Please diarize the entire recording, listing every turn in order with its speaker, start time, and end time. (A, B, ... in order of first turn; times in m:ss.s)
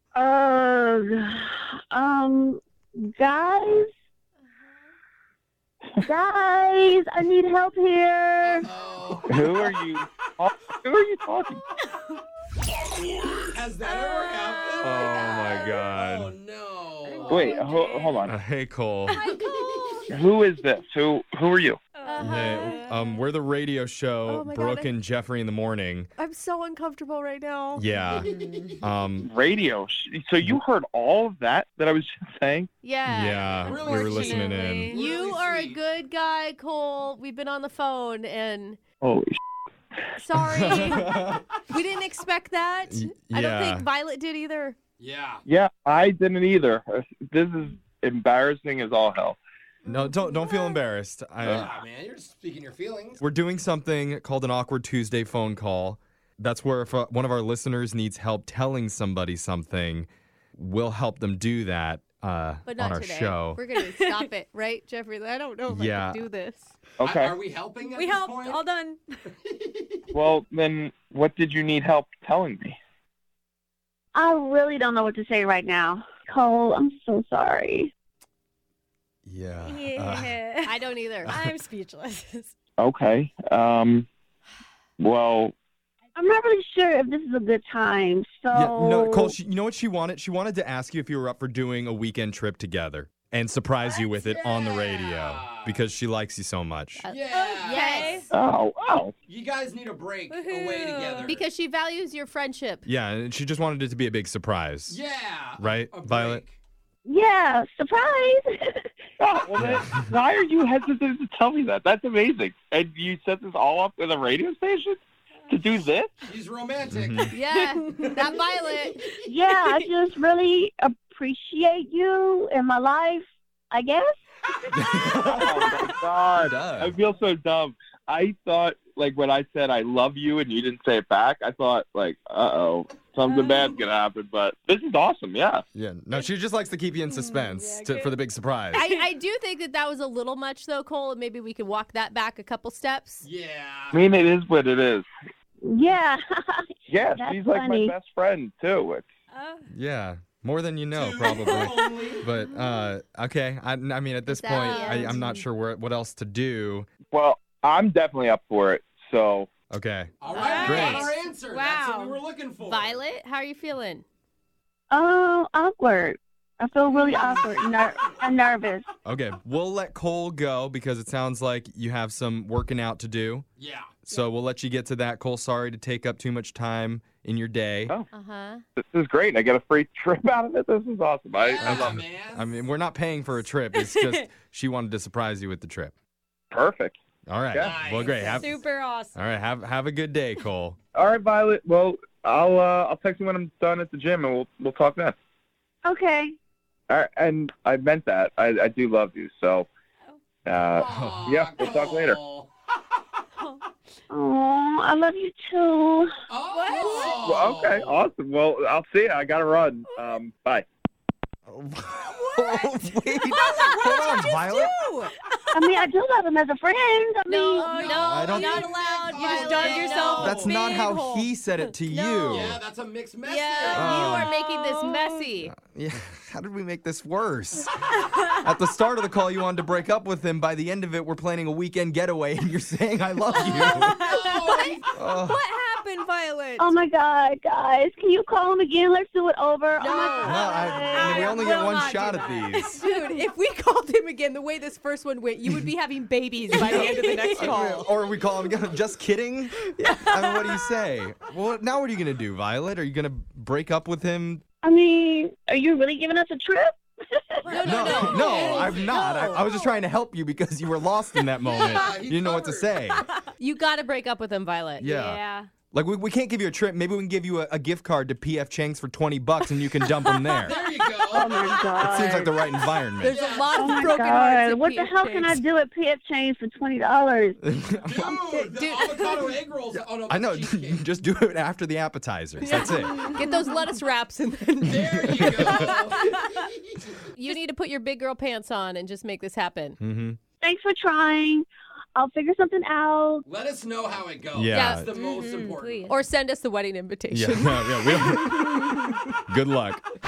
0:00.2-0:03.9 A
0:06.0-0:08.7 A
0:08.4-0:09.8 B
0:09.2-0:11.6 C
0:13.4-0:17.6 B
0:13.8-0:15.9 D
0:14.8-0:16.4 E
0:17.1-0:18.1 F
0:17.2-0:18.2 D
0:17.3-0:18.3 C
0:18.3-0:19.2 E
0:19.2-0:20.0 F
0:19.3-0:19.9 B
0:20.1-0:21.8 C
0:22.0-0:23.2 D
0:22.0-0:22.9 F
0:22.2-0:26.1 E
0:24.3-0:24.9 F
0:26.2-0:27.8 F
0:27.8-0:29.3 E
0:28.1-0:28.8 D
0:28.2-0:28.7 B
0:29.3-0:32.7 C
0:32.8-0:38.8 F
0:33.1-0:34.9 E
0:33.6-0:35.8 B
0:34.1-0:35.0 D
0:39.0-0:39.4 C
0:40.2-0:41.2 F
0:40.6-0:41.4 E
0:41.7-0:44.8 F
0:42.9-0:43.9 E
0:45.0-0:45.4 B
0:45.5-0:49.4 C
0:49.9-0:51.7 E
0:51.4-0:53.2 B
0:53.2-1:03.6 E
1:02.7-1:06.8 F
1:05.7-1:06.3 E
1:07.0-1:07.4 C
1:07.0-1:08.6 B
1:07.8-1:09.0 D
1:09.5-1:10.0 B
1:10.1-1:12.8 C
1:14.2-1:17.9 A
1:19.3-1:20.3 E
1:19.6-1:22.5 D
1:20.6-1:21.3 F
1:21.3-1:21.6 E
1:22.8-1:24.1 C
1:25.0-1:25.5 C
1:26.2-1:29.4 A
1:28.5-1:37.0 E
1:33.9-1:35.8 B
1:37.0-1:38.3 F
1:37.1-1:38.0 B
1:37.5-1:38.3 D
1:38.3-1:39.1 C
1:39.3-1:41.4 B
1:40.3-1:41.3 D
1:41.3-1:42.9 F
1:42.9-1:45.0 E
1:44.9-1:46.6 B
1:45.6-1:46.4 E
1:47.1-1:48.9 A
1:49.2-1:56.3 C
1:49.6-1:50.1 E
1:56.3-1:59.2 B
1:56.9-1:57.3 E
1:57.3-1:59.0 F
1:59.3-2:04.1 A
2:04.7-2:05.7 E
2:05.3-2:15.6 C
2:06.4-2:07.0 E
2:13.3-2:13.7 D
2:15.8-2:18.9 E
2:17.1-2:18.2 D
2:18.7-2:23.3 F
2:18.8-2:19.0 D
2:23.2-2:24.0 B
2:23.9-2:25.1 C
2:25.6-2:27.9 A
2:26.9-2:29.0 C
2:29.3-2:29.7 D
2:29.7-2:36.9 E
2:30.9-2:32.3 B
2:31.3-2:31.7 D
2:34.3-2:35.3 F
2:34.5-2:35.4 D
2:37.1-2:39.5 C
2:39.7-2:41.0 E
2:40.2-2:43.0 B
2:40.3-2:42.2 D
2:40.3-2:41.1 F
2:42.7-2:44.0 F
2:44.9-2:48.9 A
2:47.2-2:48.2 B
2:49.1-2:53.5 E
2:53.6-2:54.0 B
2:54.0-2:57.9 E
2:58.1-2:58.6 F
2:58.8-3:02.0 C
3:01.3-3:02.6 B
3:01.6-3:05.9 E
3:03.7-3:04.2 D
3:06.5-3:07.0 C
3:07.3-3:08.6 E
3:07.5-3:07.8 C
3:07.6-3:08.4 B
3:08.1-3:09.2 D
3:09.1-3:10.8 E
3:10.9-3:15.2 C
3:15.8-3:16.4 A
3:16.9-3:19.7 C
3:20.5-3:22.2 C
3:20.8-3:22.5 B
3:23.4-3:23.6 D
3:24.1-3:26.1 A
3:26.3-3:28.1 B
3:26.5-3:27.4 D
3:27.2-3:30.6 C
3:31.5-3:34.7 E
3:32.1-3:35.1 F
3:33.3-3:34.7 D
3:35.3-3:35.6 D
3:35.5-3:37.8 A
3:37.3-3:41.3 F
3:37.7-3:40.2 D
3:37.7-3:40.6 B
3:37.9-3:38.6 E
3:40.2-3:42.6 E
3:41.9-3:42.6 F
3:42.3-3:44.0 B
3:43.2-3:45.5 F
3:43.7-3:44.3 E
3:44.0-3:45.3 D
3:45.5-3:47.7 E
3:48.4-3:54.0 E
3:53.4-3:54.8 D
3:53.9-3:54.8 B
3:54.3-3:56.8 F
3:55.0-3:55.4 E
3:56.6-4:01.4 A
3:59.8-4:01.6 F
4:00.2-4:02.8 E
4:00.9-4:03.0 D
4:02.8-4:07.9 F
4:06.5-4:14.4 E
4:06.7-4:07.8 D
4:09.7-4:10.5 F
4:14.6-4:17.6 A
4:17.5-4:19.7 D
4:17.5-4:19.4 F
4:17.6-4:19.0 B
4:17.7-4:23.0 E
4:21.4-4:22.8 B
4:23.4-4:24.9 F
4:24.8-4:30.5 E
4:24.9-4:25.5 D
4:30.4-4:31.7 B
4:31.0-4:32.3 A
4:31.8-4:33.2 E
4:33.0-4:35.4 F
4:33.1-4:33.7 B
4:33.5-4:37.4 A
4:37.5-4:38.1 E
4:37.8-4:40.9 B
4:38.3-4:39.3 F
4:40.1-4:43.2 E
4:42.4-4:46.2 F
4:42.6-4:43.4 D
4:44.6-4:47.1 B
4:44.7-4:45.7 E
4:47.1-4:49.8 F
4:49.8-4:50.2 E
4:50.4-4:53.2 A
4:53.3-4:55.9 B
4:54.3-4:54.9 E
4:54.5-4:54.8 F
4:54.9-4:56.0 D
4:55.9-4:59.0 F
4:57.1-4:59.8 E